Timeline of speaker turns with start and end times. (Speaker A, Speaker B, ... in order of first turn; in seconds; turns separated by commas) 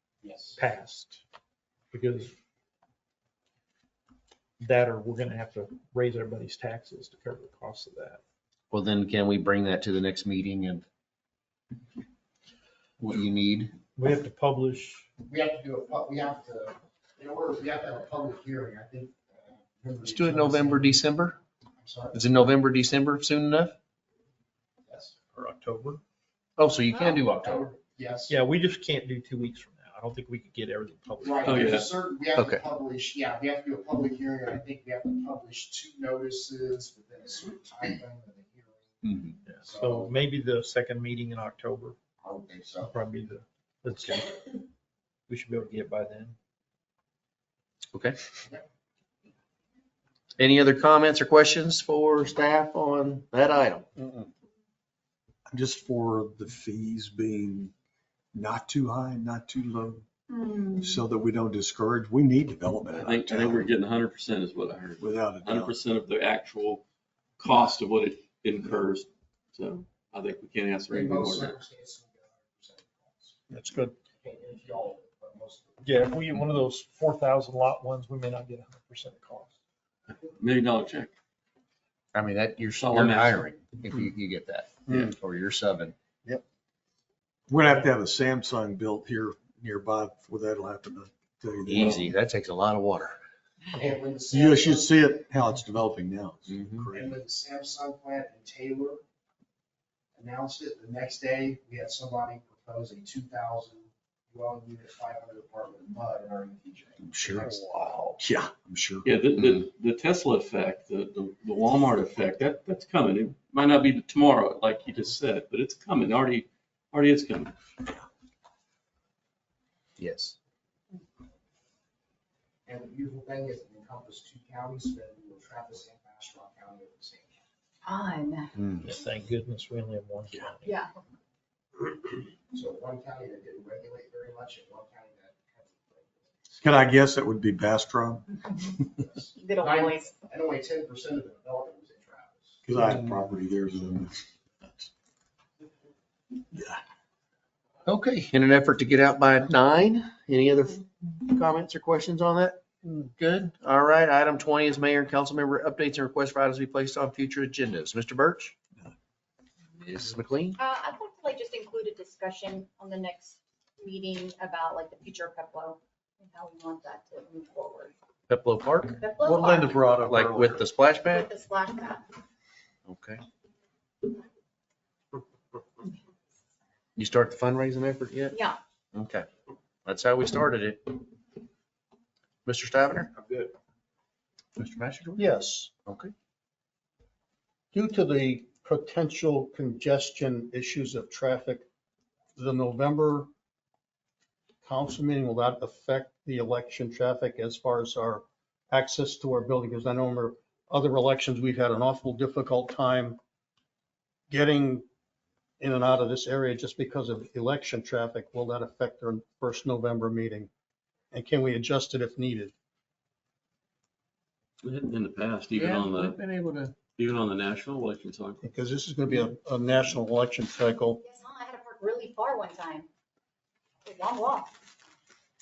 Speaker A: 0.2-0.6, Speaker B: 0.5-1.2, Speaker B: 1.9-2.3, Speaker B: 4.6-8.2, Speaker C: 8.7-10.8, Speaker C: 13.0-13.7, Speaker B: 13.9-15.1, Speaker A: 15.2-21.1, Speaker C: 20.0-21.4, Speaker A: 21.8-22.2, Speaker C: 22.1-23.7, Speaker A: 24.9-25.1, Speaker B: 25.3-26.0, Speaker C: 26.6-27.8, Speaker A: 26.9-28.3, Speaker B: 28.3-31.8, Speaker A: 31.2-39.1, Speaker D: 31.4-31.9, Speaker C: 32.4-32.6, Speaker C: 39.0-39.3, Speaker B: 39.5-42.0, Speaker A: 39.6-40.1, Speaker A: 42.2-43.0, Speaker B: 42.8-44.4, Speaker B: 45.3-46.4, Speaker C: 50.4-53.9, Speaker E: 54.0-54.3, Speaker F: 55.5-57.7, Speaker F: 58.3-60.0, Speaker G: 60.3-61.0, Speaker F: 60.8-63.7, Speaker D: 62.9-66.8, Speaker F: 65.0-65.7, Speaker D: 67.4-71.6, Speaker A: 70.9-73.4, Speaker E: 73.5-73.9, Speaker A: 74.2-75.8, Speaker B: 75.8-79.5, Speaker D: 80.1-81.1, Speaker C: 82.1-85.9, Speaker D: 82.8-83.5, Speaker E: 84.9-85.1, Speaker F: 87.5-92.1, Speaker C: 91.6-93.2, Speaker A: 93.7-95.2, Speaker F: 94.3-97.1, Speaker C: 96.5-96.9, Speaker A: 96.9-99.0, Speaker A: 100.1-108.1, Speaker F: 107.1-107.6, Speaker F: 108.2-109.0, Speaker D: 109.0-117.6, Speaker C: 120.0-120.3, Speaker A: 122.7-127.4, Speaker G: 127.8-128.6, Speaker C: 128.6-128.8, Speaker B: 128.8-130.7, Speaker G: 130.6-130.9, Speaker A: 132.5-136.3, Speaker F: 136.6-138.2, Speaker A: 139.1-142.6, Speaker G: 139.3-140.2, Speaker F: 142.7-144.9, Speaker C: 147.8-158.5, Speaker C: 159.8-160.6, Speaker G: 160.6-167.9, Speaker C: 168.3-169.0, Speaker G: 169.0-170.0, Speaker F: 169.2-170.6, Speaker C: 170.0-171.3, Speaker G: 171.0-172.1, Speaker C: 172.8-173.2, Speaker C: 176.9-178.3, Speaker G: 178.3-178.6, Speaker C: 178.9-179.3, Speaker C: 179.8-181.0, Speaker C: 182.4-183.1, Speaker C: 184.6-185.2, Speaker E: 185.2-185.7, Speaker C: 185.8-186.1, Speaker E: 187.7-191.7, Speaker E: 192.4-193.3, Speaker E: 194.6-203.2, Speaker E: 204.3-204.8, Speaker E: 205.6-210.5, Speaker E: 211.1-212.5, Speaker D: 214.6-216.2, Speaker C: 215.5-216.8, Speaker D: 216.9-218.4, Speaker E: 218.4-221.0, Speaker G: 221.0-222.9, Speaker G: 223.8-224.5